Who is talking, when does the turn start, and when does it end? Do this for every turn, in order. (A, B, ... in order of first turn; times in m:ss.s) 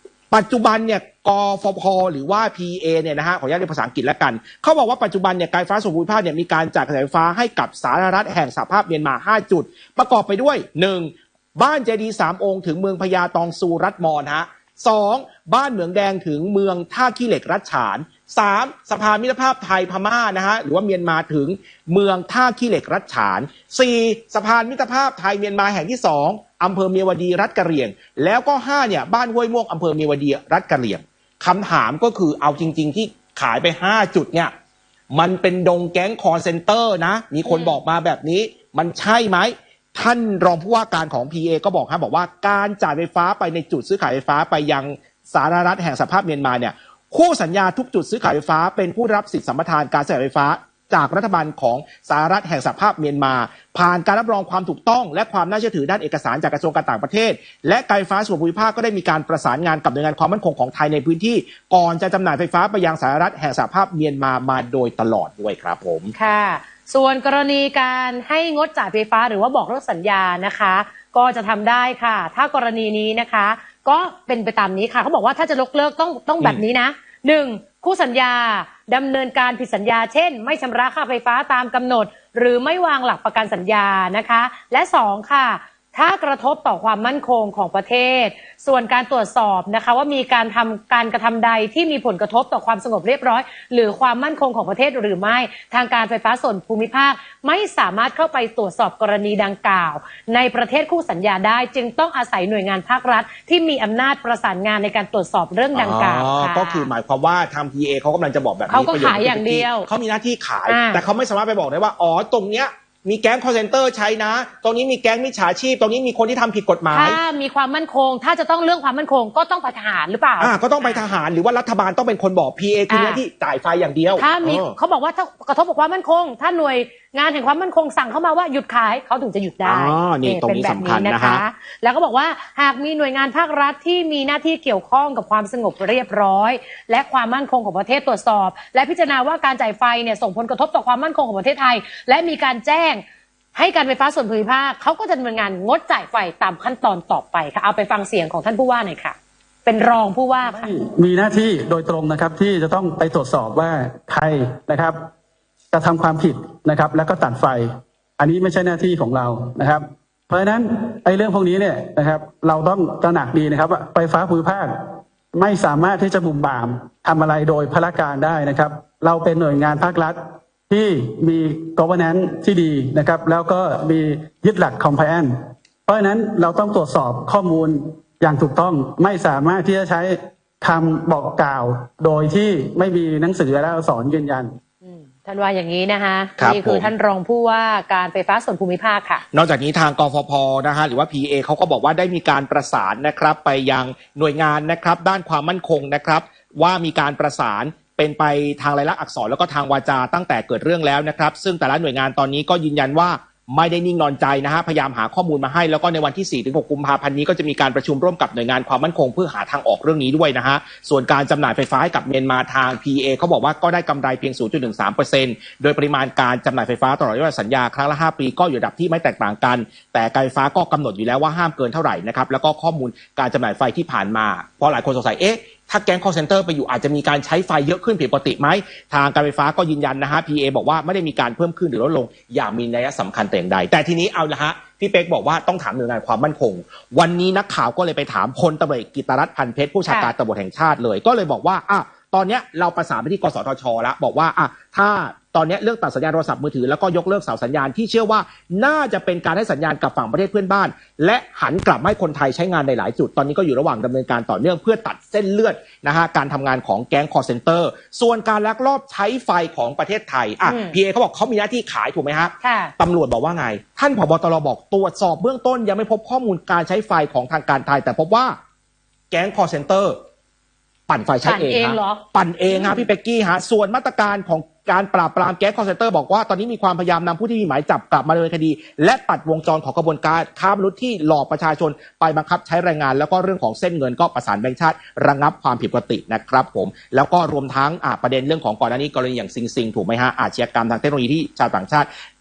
0:00.3-0:34.5 A
0:35.1-1:06.1 A
0:37.5-0:37.8 B
1:06.2-1:46.9 B
1:45.7-1:57.2 A
1:48.7-1:49.9 B
1:50.7-1:51.0 B
1:56.9-2:01.1 B
2:00.4-2:04.8 A
2:02.9-2:03.2 B
2:04.2-2:23.0 B
2:09.6-2:11.4 A
2:23.6-2:30.7 B
2:30.4-2:35.0 C
2:35.7-2:37.7 C
2:38.2-2:44.7 C
2:45.3-2:50.2 C
2:50.7-2:55.3 C
2:55.9-3:04.6 C
3:04.8-3:09.2 B
3:06.4-3:06.9 A
3:09.3-4:28.4 A
3:59.9-4:00.1 B
4:20.4-4:20.8 B
4:22.4-4:22.7 B
4:29.1-4:30.0 A
4:30.9-4:51.9 A
4:31.2-4:32.9 B